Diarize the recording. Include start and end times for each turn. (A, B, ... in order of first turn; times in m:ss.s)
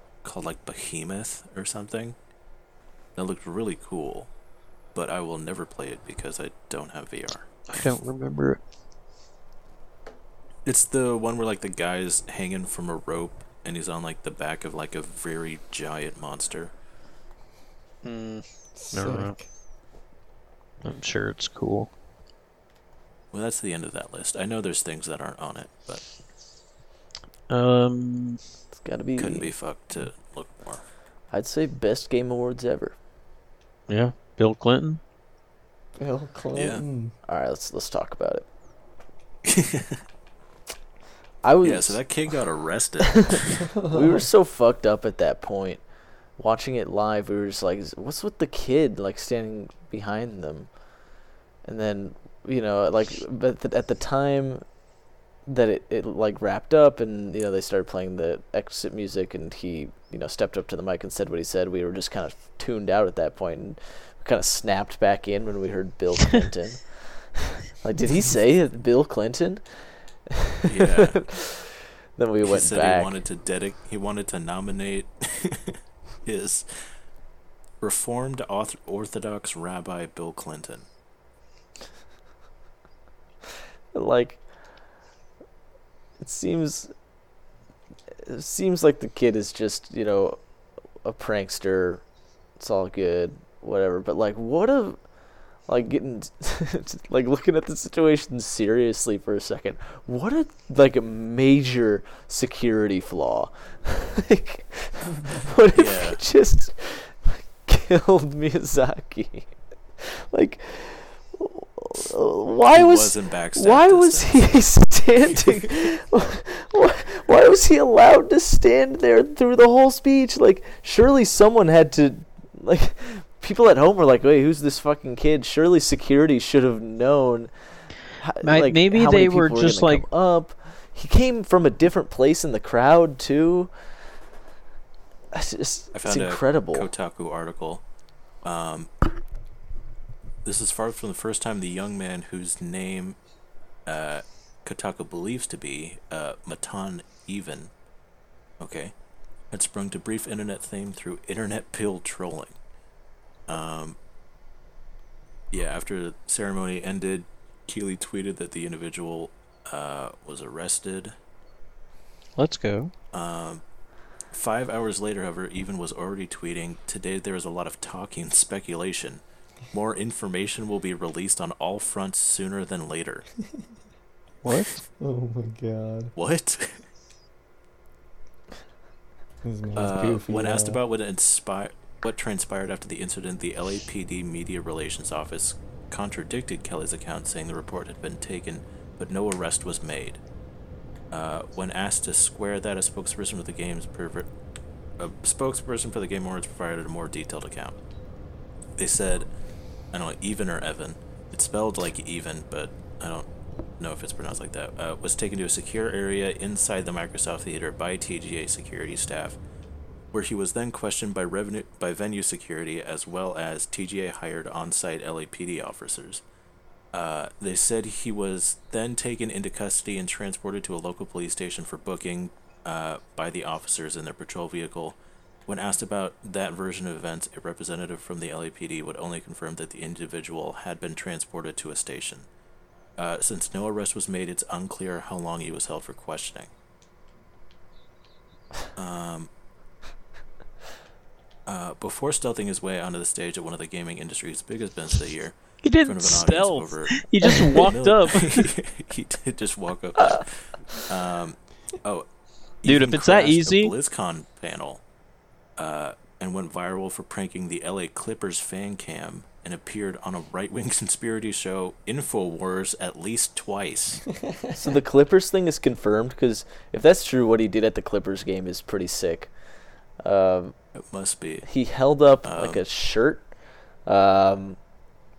0:00.2-0:02.2 A
0:03.2-0:04.3 A
0:04.9-0:07.9 A
0:07.7-0:08.6 B
0:10.6-0:16.7 A
0:18.0-0:19.4 B
0:18.8-0:19.5 C
0:20.8-0:21.9 B
0:23.3-0:26.1 A
0:27.5-0:28.4 B
0:28.7-0:29.5 D
0:29.2-0:30.8 A
0:31.3-0:33.0 D
0:33.9-0:35.0 B
0:36.0-0:37.1 C
0:36.5-0:36.8 A
0:37.3-0:38.5 D
0:39.5-0:40.0 A
0:41.4-0:42.1 D
0:41.6-0:43.6 A
0:43.8-0:44.2 C
0:43.9-0:45.8 D
0:46.4-0:50.7 D
0:51.6-0:54.6 D
0:55.5-1:13.2 D
1:10.7-1:11.2 A
1:12.5-1:16.9 A
1:17.8-1:20.9 A
1:23.9-1:24.4 D
1:26.2-1:26.9 D
1:28.2-1:30.4 D
1:31.0-1:32.0 D
1:32.6-1:35.0 D
1:35.7-2:14.1 D
1:45.8-1:46.2 A
1:52.7-1:54.5 A
2:08.4-2:10.0 B
2:15.3-2:16.9 D
2:15.9-2:17.8 A
2:18.4-2:18.9 A
2:20.4-2:23.2 A
2:23.9-2:27.7 A
2:28.6-2:28.9 A
2:29.5-2:32.6 A
2:33.5-2:34.0 A
2:35.5-2:41.1 A
2:42.4-2:42.9 B
2:43.1-2:43.6 A
2:44.3-2:53.3 A
2:54.4-2:54.8 B
2:55.0-2:56.1 C
2:56.2-2:56.8 A
2:59.4-3:00.8 C
2:59.8-3:10.2 A
3:11.1-3:14.3 A
3:15.0-3:17.8 A
3:18.8-3:19.3 A
3:19.9-3:23.3 A
3:23.8-3:29.4 A
3:30.1-3:36.2 A
3:36.9-3:52.3 A
3:53.0-3:56.5 A
3:58.8-3:59.3 A
4:01.5-4:12.1 A
4:05.6-4:08.5 B
4:12.6-4:14.8 A
4:12.6-4:13.7 B
4:15.6-4:24.0 A
4:24.6-4:29.3 D
4:30.0-4:30.5 D
4:30.8-4:31.5 A
4:31.4-4:33.3 D
4:32.2-4:32.6 A
4:33.9-4:34.6 D